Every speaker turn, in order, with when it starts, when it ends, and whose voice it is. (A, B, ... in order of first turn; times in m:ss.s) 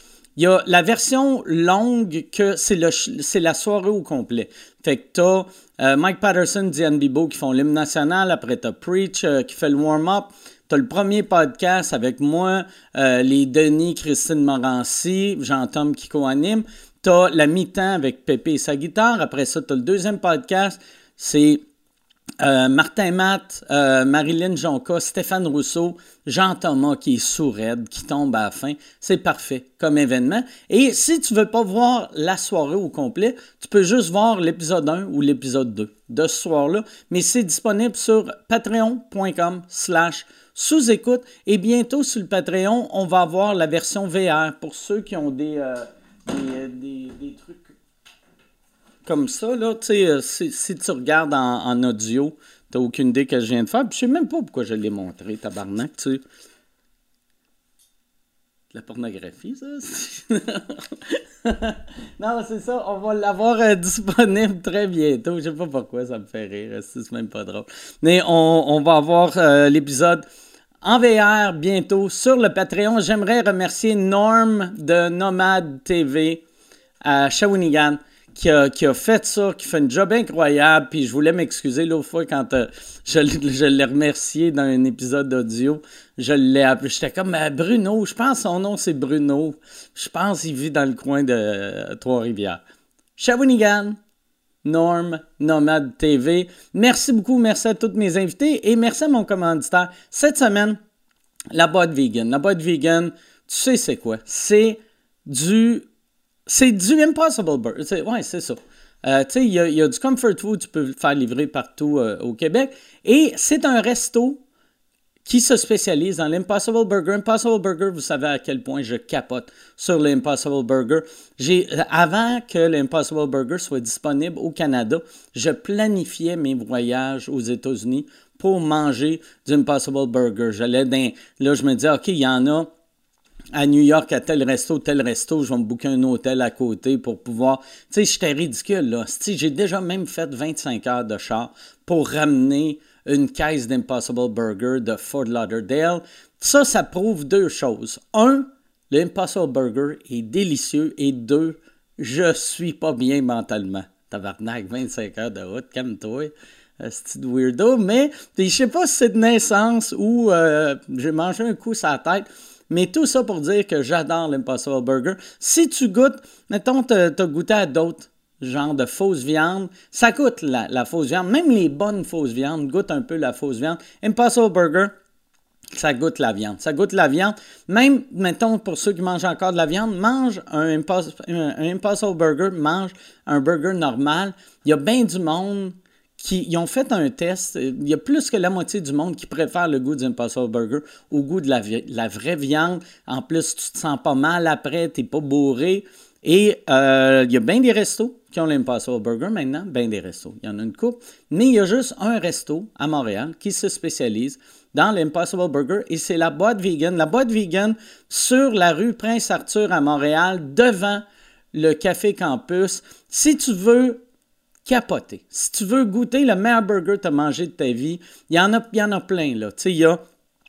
0:00.4-0:21.6 A
0:22.4-0:47.7 A
0:49.0-0:56.2 A
0:58.7-1:10.2 A
1:10.8-1:16.4 A
1:17.0-1:32.6 A
1:33.2-1:34.0 A
1:34.6-1:40.8 A
1:41.5-1:45.9 A
1:46.5-1:54.4 A
1:55.2-2:12.7 A
2:13.6-2:54.9 A
2:55.7-3:34.0 A
3:34.7-3:40.0 A